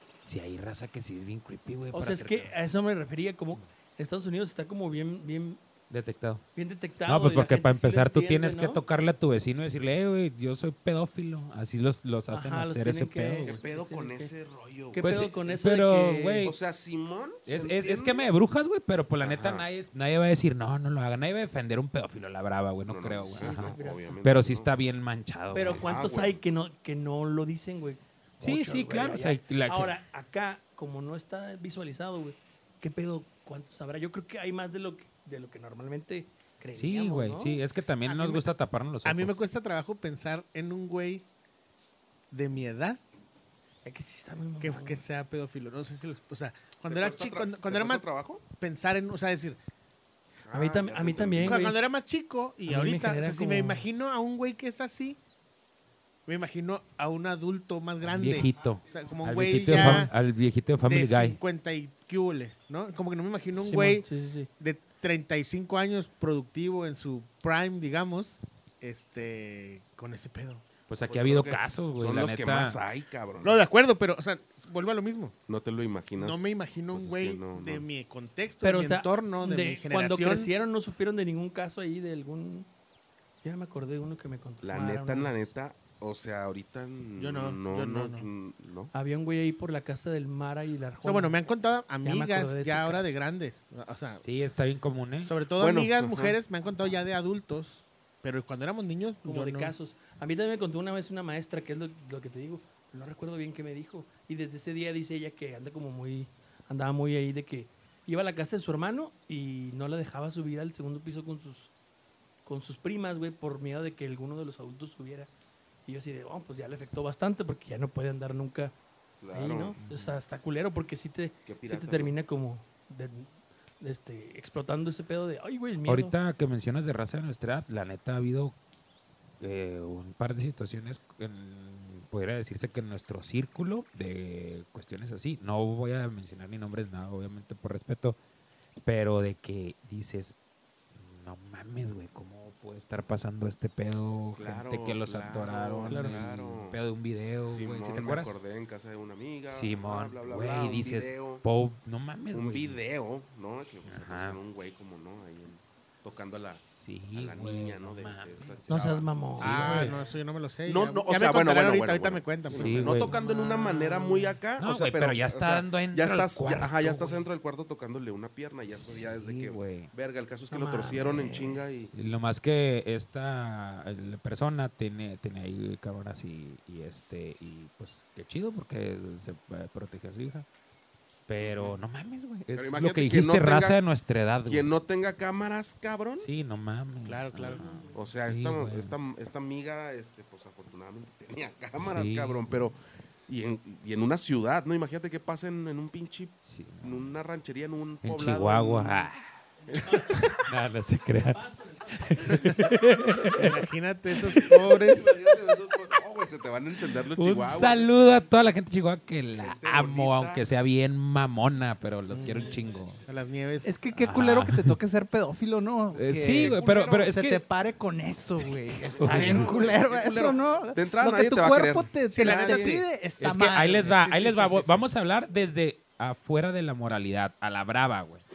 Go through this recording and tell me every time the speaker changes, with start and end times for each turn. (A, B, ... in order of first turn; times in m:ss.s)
0:00.2-0:02.5 A
0:01.9-0:05.6 B
0:05.9-0:06.4 A
0:06.6-0:08.8 B
0:07.1-0:13.6 A
0:12.3-0:14.3 B
0:13.4-0:15.1 C
0:14.9-0:16.5 B
0:15.0-0:16.6 A
0:16.4-0:18.3 C
0:17.5-0:26.0 A
0:19.2-0:19.7 C
0:22.9-0:24.7 C
0:23.4-0:24.1 B
0:25.5-0:37.6 B
0:25.6-0:26.4 C
0:28.4-0:30.0 A
0:36.8-0:39.4 A
0:38.0-0:38.5 D
0:39.0-0:41.3 D
0:42.3-0:43.0 D
0:43.8-0:45.0 B
0:44.6-0:49.6 D
0:46.9-0:48.4 C
0:50.5-0:51.7 C
0:50.5-0:51.8 B
0:51.4-0:55.2 D
0:52.6-0:53.8 B
0:56.3-1:00.1 D
0:58.1-1:01.4 A
0:59.7-1:00.1 B
1:00.9-1:04.1 D
1:03.5-1:04.5 B
1:04.6-1:10.6 D
1:10.9-1:12.8 A
1:11.1-1:13.6 C
1:13.4-1:15.4 D
1:15.5-1:17.8 C
1:16.1-1:20.5 D
1:18.6-1:22.7 B
1:23.4-1:25.5 B
1:24.6-1:28.9 C
1:27.2-1:28.3 D
1:28.9-1:31.4 B
1:31.0-1:34.2 D
1:32.0-1:33.2 B
1:34.2-1:35.3 A
1:35.2-1:39.7 D
1:35.6-1:36.4 C
1:39.2-1:51.7 B
1:52.4-1:55.3 B
1:55.9-1:58.7 B
1:59.2-1:59.8 C
1:59.3-2:06.2 B
1:59.8-2:00.2 A
2:01.5-2:02.1 C
2:05.9-2:08.6 A
2:09.4-2:18.2 A
2:18.8-2:20.4 A
2:21.0-2:28.4 A
2:24.4-2:26.8 C
2:25.9-2:26.2 B
2:27.5-2:31.4 C
2:29.5-2:32.8 A
2:32.3-2:36.6 C
2:33.9-2:34.4 A
2:36.6-2:38.8 A
2:37.1-2:39.8 C
2:38.7-2:40.1 B
2:39.4-2:40.2 A
2:39.4-2:43.0 D
2:40.7-2:51.9 C
2:42.5-2:43.1 A
2:43.0-2:44.4 B
2:44.6-2:47.3 A
2:48.8-2:49.9 A
2:50.5-2:51.6 B
2:51.9-3:00.5 A
3:01.3-3:04.7 A
3:01.4-3:01.8 C
3:02.6-3:03.8 C
3:04.5-3:06.3 C
3:06.2-3:08.9 A
3:07.0-3:07.7 D
3:07.6-3:07.9 B
3:07.9-3:19.1 C
3:11.8-3:12.5 A
3:16.5-3:17.1 A
3:18.0-3:19.3 A
3:19.6-3:20.4 B
3:19.7-3:20.3 C
3:20.1-3:21.4 A
3:21.1-3:23.3 B
3:21.9-3:23.6 A
3:23.3-3:25.1 D
3:24.8-3:27.9 C
3:27.1-3:33.0 A
3:29.4-3:30.4 C
3:32.1-3:33.8 D
3:33.6-3:44.7 E
3:34.0-3:34.8 A
3:36.0-3:37.4 A
3:36.3-3:37.0 C
3:39.0-3:42.8 C
3:39.0-3:39.5 A
3:42.1-3:42.9 D
3:43.2-3:48.2 A